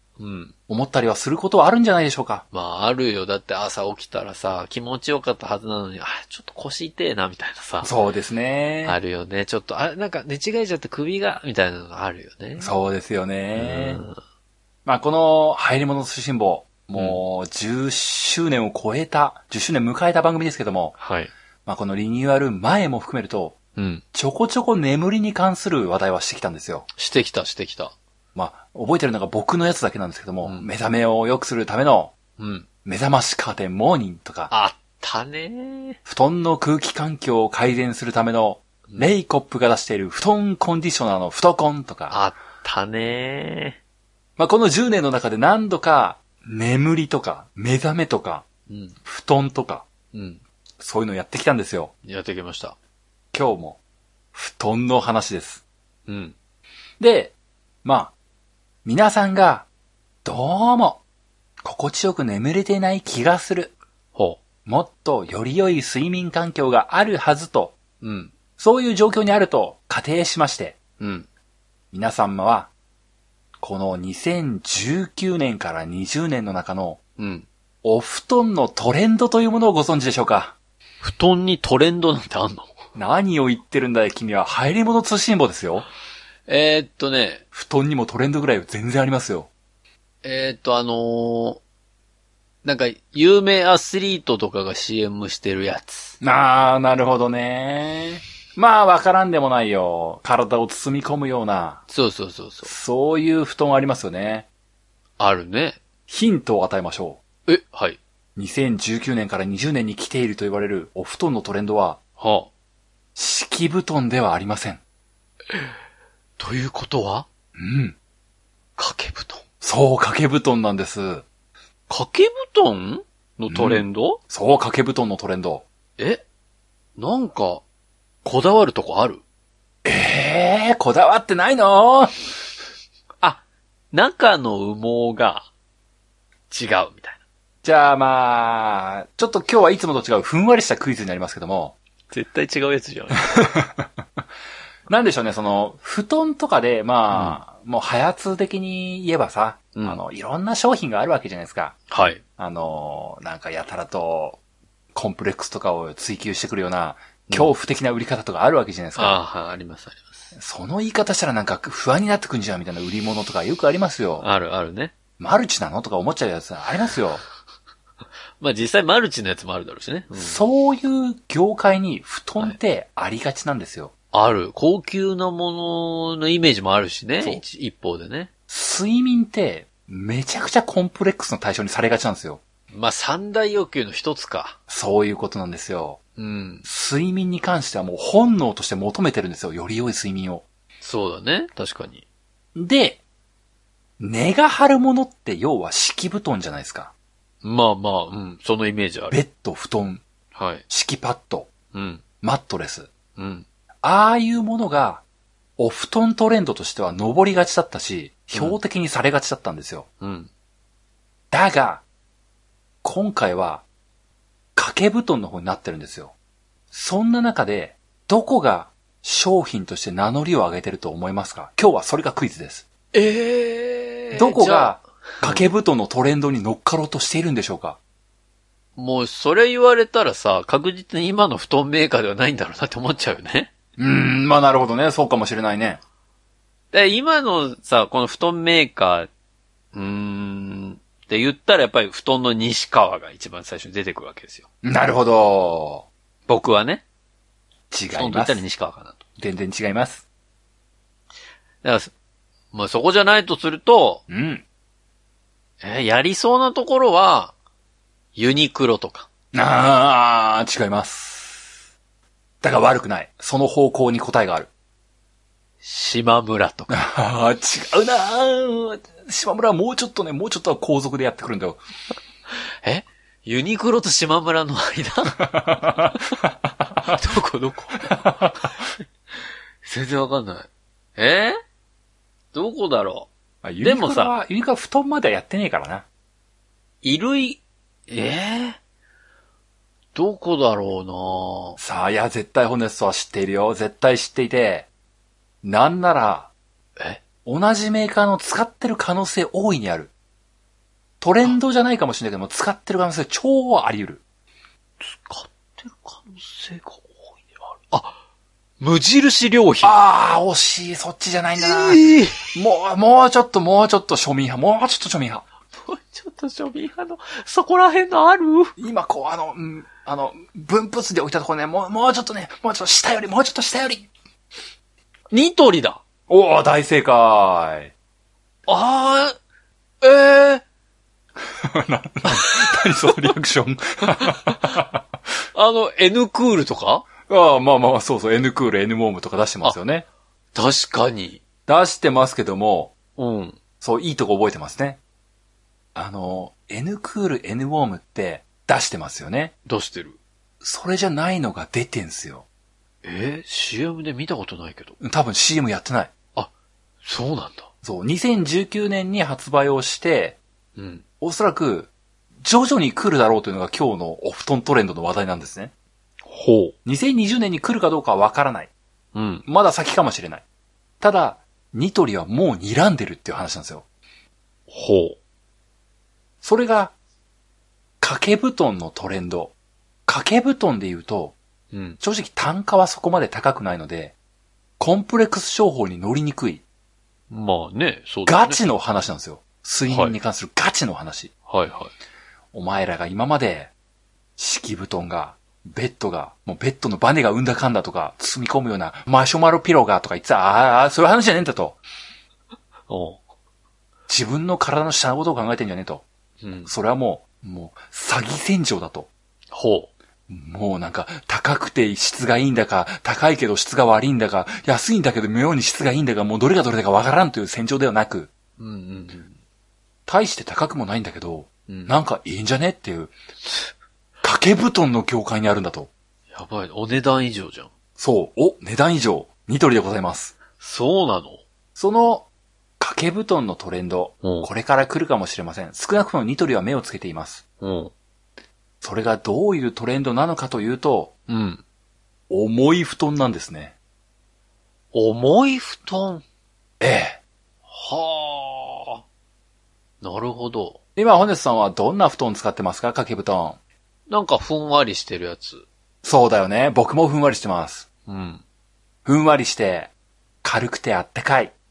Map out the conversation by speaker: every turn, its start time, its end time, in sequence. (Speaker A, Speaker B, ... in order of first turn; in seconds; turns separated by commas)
Speaker A: 0.2-0.5, Speaker B: 0.7-2.4, Speaker A: 2.5-7.9, Speaker B: 7.8-9.0, Speaker A: 8.8-12.7, Speaker B: 12.6-14.0, Speaker A: 13.5-14.2, Speaker B: 14.8-21.0, Speaker A: 16.9-17.2, Speaker A: 21.0-21.3, Speaker B: 21.6-23.6, Speaker A: 23.8-24.0, Speaker B: 24.1-26.9, Speaker A: 27.0-27.9, Speaker B: 28.3-32.1, Speaker A: 30.4-30.7, Speaker A: 32.4-32.7, Speaker B: 32.8-34.5, Speaker A: 34.5-36.0, Speaker B: 36.0-42.2, Speaker A: 42.1-43.8, Speaker B: 44.4-48.4, Speaker A: 48.7-49.0, Speaker B: 49.0-49.9, Speaker A: 50.1-50.4, Speaker B: 50.8-51.9, Speaker A: 52.0-52.8, Speaker B: 53.3-53.8, Speaker B: 54.3-55.6, Speaker A: 56.1-56.3, Speaker B: 57.0-58.1, Speaker B: 58.8-59.7, Speaker B: 60.2-61.0, Speaker B: 61.6-63.7, Speaker A: 64.1-64.4, Speaker B: 64.7-67.8, Speaker A: 68.0-68.3, Speaker B: 68.6-70.8, Speaker A: 71.0-71.3, Speaker B: 71.9-72.7, Speaker B: 73.6-77.0, Speaker A: 77.2-77.5, Speaker B: 77.8-80.5, Speaker A: 81.0-82.7, Speaker B: 82.9-85.9, Speaker A: 86.5-87.4, Speaker B: 87.5-89.5, Speaker A: 90.2-91.6, Speaker A: 92.6-96.2, Speaker B: 96.2-101.8, Speaker A: 101.9-102.7, Speaker B: 102.6-104.5, Speaker A: 105.2-105.8, Speaker B: 106.1-107.2, Speaker A: 107.5-108.0, Speaker B: 108.3-112.0, Speaker A: 112.2-112.5, Speaker B: 113.2-114.8, Speaker A: 116.4-117.3, Speaker B: 117.5-118.0, Speaker A: 118.8-119.4, Speaker B: 119.6-121.2, Speaker A: 121.9-124.2, Speaker B: 123.5-125.6, Speaker A: 126.0-126.2, Speaker A: 127.0-127.6, Speaker A: 128.2-129.2, Speaker B: 129.8-132.2, Speaker A: 133.2-135.5, Speaker A: 136.5-137.2, Speaker B: 137.6-141.8, Speaker A: 142.1-143.4, Speaker B: 143.3-143.9, Speaker B: 144.9-151.8, Speaker A: 147.1-147.4, Speaker A: 149.7-150.0, Speaker A: 151.9-152.2, Speaker B: 152.4-154.4, Speaker B: 154.9-159.2, Speaker A: 158.9-160.3, Speaker B: 160.3-164.2, Speaker A: 164.2-164.9, Speaker B: 165.2-167.2, Speaker A: 168.4-170.4, Speaker B: 170.1-173.9, Speaker A: 174.1-178.3, Speaker B: 178.5-182.4, Speaker A: 182.7-184.6, Speaker B: 184.7-186.0, Speaker A: 186.2-186.6, Speaker B: 186.6-190.4, Speaker A: 190.8-192.0, Speaker B: 192.5-193.0, Speaker B: 194.0-196.9, Speaker A: 197.4-199.2, Speaker B: 199.1-200.0, Speaker A: 200.3-200.6, Speaker B: 200.7-201.5, Speaker A: 201.7-202.0, Speaker B: 202.2-202.9, Speaker A: 203.2-203.4, Speaker B: 203.8-205.0, Speaker B: 205.6-209.8, Speaker A: 210.0-210.3, Speaker B: 211.3-211.8, Speaker B: 212.8-213.6, Speaker B: 214.6-216.1, Speaker B: 216.7-222.7, Speaker A: 222.9-225.4, Speaker B: 224.1-227.8, Speaker A: 228.8-233.5, Speaker B: 233.8-235.8, Speaker A: 236.7-239.1, Speaker A: 239.7-244.4, Speaker B: 244.6-245.8, Speaker A: 246.3-246.8, Speaker B: 247.7-248.4, Speaker A: 247.9-249.0, Speaker B: 249.2-250.0, Speaker A: 251.6-251.9, Speaker A: 252.5-254.0, Speaker B: 254.1-254.4, Speaker A: 255.6-257.3, Speaker A: 258.1-259.1, Speaker B: 259.3-261.5, Speaker B: 262.4-264.5, Speaker A: 265.6-266.8, Speaker B: 266.7-271.6, Speaker A: 272.6-276.0, Speaker B: 275.2-276.2, Speaker A: 276.8-278.4, Speaker A: 279.6-281.4, Speaker A: 282.3-283.1, Speaker B: 283.4-285.8, Speaker A: 283.6-284.1, Speaker A: 286.8-288.6, Speaker A: 289.9-291.6, Speaker B: 291.6-294.7, Speaker B: 295.4-296.3, Speaker B: 297.2-299.9, Speaker B: 301.0-304.0, Speaker A: 304.8-307.9, Speaker A: 308.6-309.7, Speaker B: 309.6-315.2, Speaker A: 311.4-312.3, Speaker A: 315.6-318.5, Speaker B: 318.6-323.9, Speaker A: 325.1-325.8, Speaker B: 326.1-327.7, Speaker A: 328.5-329.2, Speaker A: 329.8-330.4, Speaker B: 331.4-334.8, Speaker A: 332.1-333.1, Speaker A: 333.9-334.6, Speaker A: 335.3-336.9, Speaker B: 337.1-339.9, Speaker A: 340.3-341.2, Speaker B: 341.5-342.7, Speaker A: 342.9-343.4, Speaker B: 343.6-344.8, Speaker B: 345.7-349.3, Speaker A: 349.4-350.0, Speaker B: 350.4-352.2, Speaker A: 352.8-354.8, Speaker B: 354.8-355.9, Speaker A: 356.8-357.5, Speaker B: 357.6-360.2, Speaker A: 360.6-360.8, Speaker B: 361.0-361.7, Speaker B: 362.2-365.5, Speaker A: 366.1-366.6, Speaker B: 366.6-368.5, Speaker A: 368.9-369.2, Speaker B: 369.2-370.2, Speaker B: 370.8-373.6, Speaker A: 374.5-375.0, Speaker B: 376.2-376.7, Speaker B: 377.8-379.3, Speaker B: 379.9-381.1, Speaker A: 381.5-381.8, Speaker B: 381.8-383.9, Speaker B: 384.6-386.4, Speaker A: 387.1-388.4, Speaker B: 388.1-391.1, Speaker A: 389.7-389.9, Speaker A: 391.3-391.7, Speaker B: 392.3-393.5, Speaker B: 394.2-401.6, Speaker A: 402.7-403.0, Speaker B: 403.9-405.8, Speaker A: 406.2-406.5, Speaker B: 406.4-408.9, Speaker A: 409.3-409.7, Speaker B: 410.1-418.1, Speaker A: 418.4-419.1, Speaker B: 419.9-422.9, Speaker A: 421.5-421.7, Speaker B: 424.0-425.7, Speaker A: 426.1-427.5, Speaker B: 427.8-430.1, Speaker A: 430.4-431.2, Speaker B: 431.6-432.1, Speaker B: 432.6-437.2, Speaker A: 434.0-434.3, Speaker A: 437.4-437.7, Speaker B: 438.6-440.9, Speaker A: 441.1-441.4, Speaker B: 442.1-443.5, Speaker A: 444.7-446.0, Speaker B: 446.6-447.0, Speaker A: 447.5-448.8, Speaker A: 449.8-450.6, Speaker B: 450.8-453.4, Speaker A: 453.9-455.4, Speaker B: 455.8-457.6, Speaker A: 457.9-458.2, Speaker B: 458.8-459.7, Speaker B: 460.2-461.3